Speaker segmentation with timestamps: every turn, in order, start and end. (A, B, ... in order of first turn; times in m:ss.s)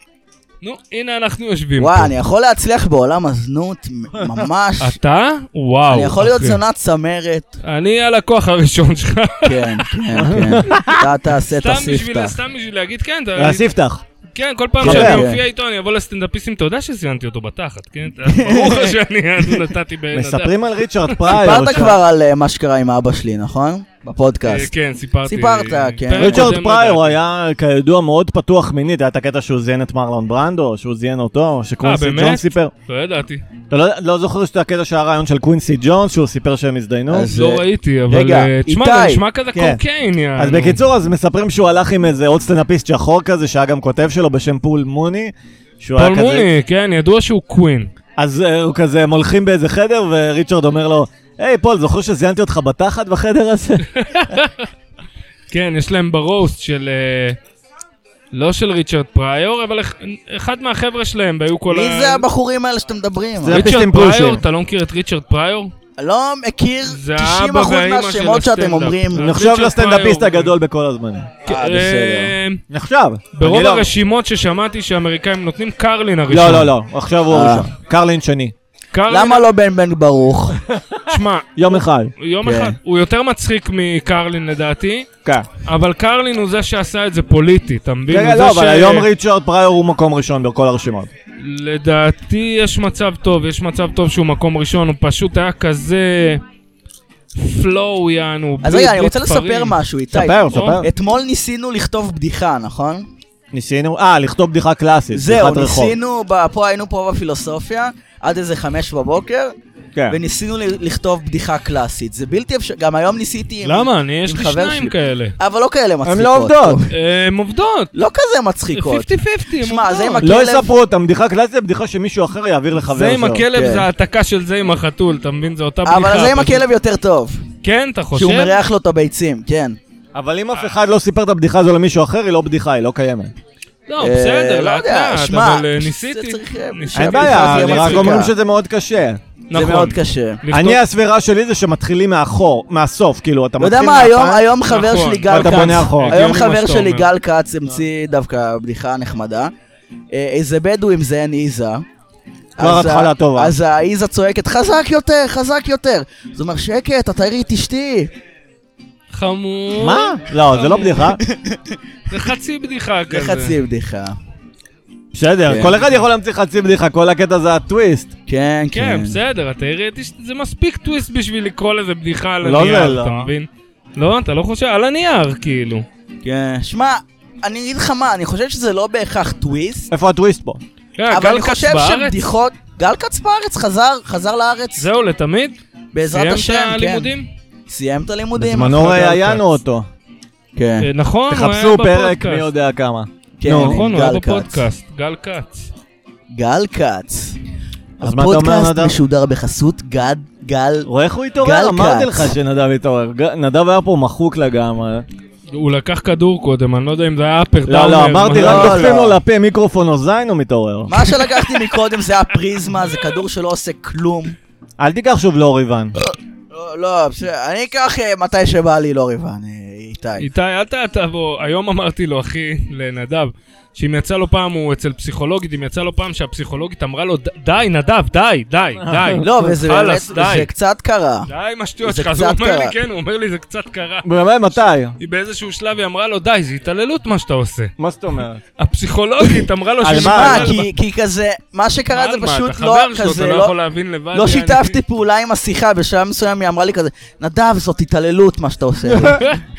0:00.6-0:02.1 A
0:01.8-0:05.0 B
0:04.2-0:04.4 C
0:04.8-0:06.6 A
0:05.9-0:07.6 B
0:07.6-0:09.9 A
0:09.4-0:12.4 B
0:10.2-0:11.0 C
0:11.5-0:13.6 A
0:13.4-0:14.0 C
0:14.3-0:21.6 A
0:14.8-0:15.2 C
0:14.8-0:15.4 B
0:18.3-0:19.0 B
0:20.1-0:22.0 C
0:21.3-0:24.7 B
0:24.4-0:27.2 A
0:25.2-0:26.5 B
0:26.2-0:32.7 C
0:31.8-0:33.4 A
0:33.7-0:37.3 C
0:37.1-0:39.2 B
0:37.1-0:40.8 A
0:39.5-0:39.8 C
0:40.4-0:46.5 C
0:46.0-0:47.9 A
0:48.2-0:53.9 C
0:53.9-0:54.7 A
0:55.5-0:57.4 A
0:58.3-1:02.2 A
1:01.7-1:03.6 B
1:03.4-1:04.4 C
1:03.5-1:05.7 A
1:06.0-1:09.3 B
1:06.8-1:10.5 A
1:09.1-1:11.3 C
1:11.4-1:12.6 A
1:11.4-1:12.3 B
1:12.7-1:13.9 C
1:13.3-1:16.7 A
1:16.3-1:18.5 C
1:17.3-1:17.7 B
1:18.9-1:19.5 A
1:19.1-1:20.6 B
1:20.7-1:21.0 C
1:21.1-1:25.1 A
1:21.6-1:22.1 C
1:22.4-1:22.7 B
1:25.6-1:29.1 A
1:28.1-1:31.1 C
1:31.4-1:36.4 A
1:37.4-1:39.8 A
1:38.6-1:43.1 B
1:40.1-1:40.9 C
1:40.5-1:40.8 A
1:43.5-1:46.0 C
1:45.1-1:49.5 B
1:50.1-1:56.9 B
1:53.6-1:55.4 A
1:56.0-1:56.8 C
1:56.9-1:57.9 A
1:57.9-2:00.7 B
1:58.7-2:00.3 A
2:00.2-2:03.4 C
2:02.8-2:06.6 A
2:03.4-2:03.9 B
2:05.8-2:07.4 B
2:07.6-2:08.6 A
2:08.1-2:09.8 B
2:10.1-2:13.3 C
2:13.9-2:18.3 A
2:14.0-2:18.3 B
2:16.9-2:19.2 C
2:19.5-2:20.8 A
2:19.5-2:20.4 B
2:20.5-2:24.5 C
2:23.6-2:29.5 B
2:24.6-2:27.1 A
2:25.3-2:26.2 C
2:30.1-2:31.8 B
2:32.6-2:38.1 B
2:32.6-2:33.5 C
2:39.1-2:41.2 A
2:39.8-2:41.2 C
2:41.2-2:41.6 B
2:42.1-2:43.6 A
2:43.1-2:44.2 B
2:45.1-2:48.1 C
2:45.4-2:45.8 B
2:48.3-2:49.2 B
2:48.7-2:55.8 A
2:52.4-2:53.3 C
2:56.2-2:59.9 B
2:59.9-3:00.6 C
3:01.0-3:02.3 A
3:01.1-3:04.9 B
3:04.8-3:07.3 A
3:05.9-3:07.1 B
3:07.7-3:09.2 B
3:08.3-3:09.9 C
3:08.9-3:09.4 A
3:10.6-3:10.9 B
3:10.8-3:12.5 A
3:11.3-3:13.9 C
3:13.4-3:14.6 B
3:13.5-3:15.7 A
3:16.3-3:17.4 B
3:18.0-3:19.0 C
3:18.0-3:20.9 B
3:20.8-3:25.0 C
3:21.4-3:22.3 B
3:25.5-3:28.9 A
3:27.6-3:30.9 C
3:28.4-3:29.2 B
3:30.9-3:34.4 B
3:34.8-3:36.0 C
3:36.0-3:40.3 B
3:40.2-3:50.5 A
3:48.8-3:49.2 C
3:49.2-3:51.3 B
3:51.3-3:54.1 A
3:51.8-3:52.7 B
3:54.0-3:54.9 C
3:55.0-3:57.7 A
3:57.8-3:58.4 C
3:58.6-4:00.7 A
3:59.8-4:00.5 C
3:59.8-4:03.5 B
4:01.9-4:04.8 A
4:04.1-4:09.2 B
4:08.9-4:09.2 C